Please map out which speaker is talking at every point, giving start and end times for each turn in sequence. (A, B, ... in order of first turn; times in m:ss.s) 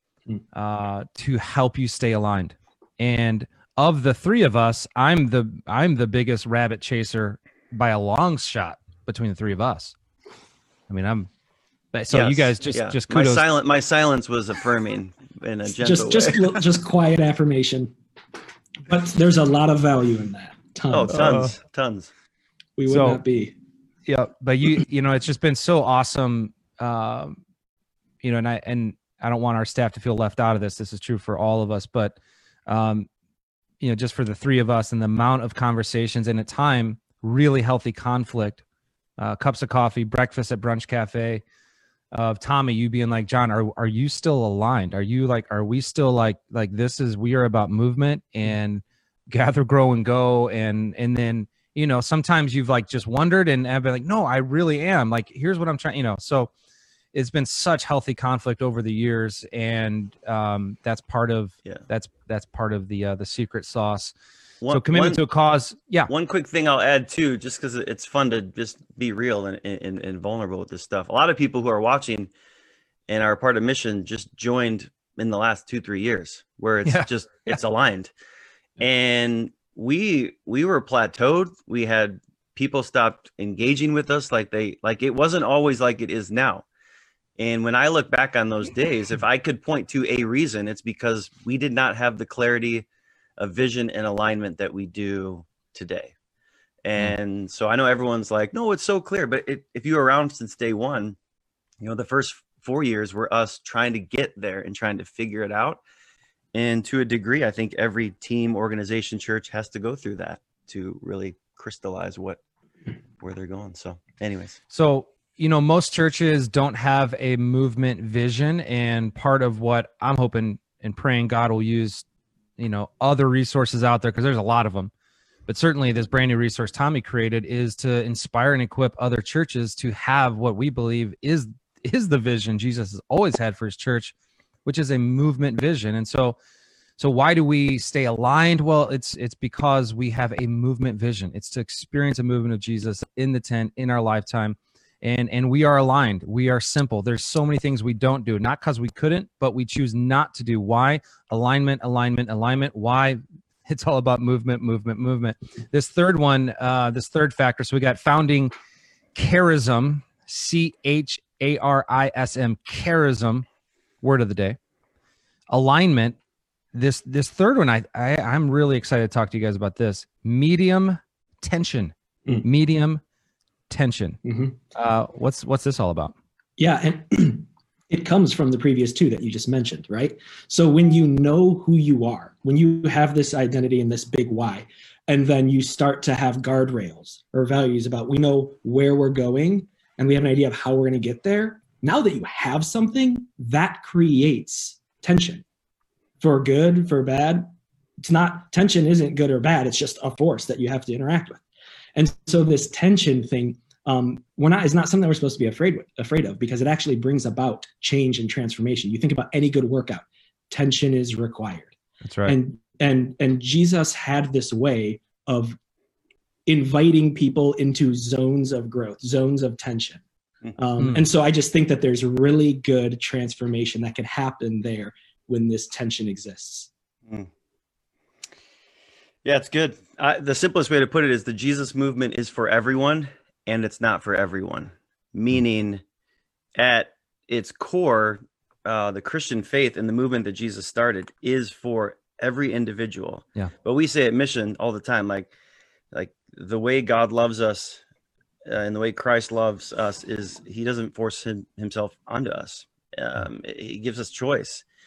0:00.5-0:09.9 A
0:10.9-0:11.3 A
0:11.9-0:13.4 A
0:12.1-0:16.6 B
0:15.8-0:17.9 C
0:18.9-0:21.4 C
0:20.9-0:22.1 B
0:21.1-0:21.5 A
0:22.8-0:23.5 C
0:22.9-0:23.2 A
0:24.1-0:27.4 A
0:28.2-0:32.2 A
0:32.7-0:33.1 A
0:33.8-0:38.6 A
0:39.2-0:41.4 A
0:42.1-0:56.5 A
0:57.1-1:04.1 A
1:04.6-1:05.2 B
1:04.7-1:06.1 A
1:06.1-1:12.3 B
1:13.1-1:18.1 B
1:16.8-1:17.6 A
1:18.8-1:26.6 B
1:27.4-1:32.8 B
1:33.4-1:36.1 B
1:36.8-1:41.2 B
1:41.8-1:45.8 B
1:46.5-1:52.4 B
1:53.2-1:54.6 B
1:54.7-2:02.0 A
2:02.6-2:04.9 A
2:05.5-2:14.1 A
2:14.6-2:16.4 A
2:17.0-2:38.5 A
2:39.1-2:43.4 A
2:44.0-2:44.6 A
2:45.5-2:46.2 A
2:46.7-2:53.0 A
2:53.7-2:54.2 A
2:54.2-2:54.6 C
2:54.7-2:56.1 A
2:56.6-3:15.4 C
3:16.2-3:21.4 C
3:21.9-3:31.7 C
3:32.0-3:32.4 A
3:32.2-3:35.6 C
3:36.5-3:40.0 C
3:40.6-3:46.7 C
3:40.8-3:41.0 A
3:49.2-3:55.8 B
3:56.6-4:05.3 B
4:05.9-4:07.8 B
4:08.4-4:14.6 B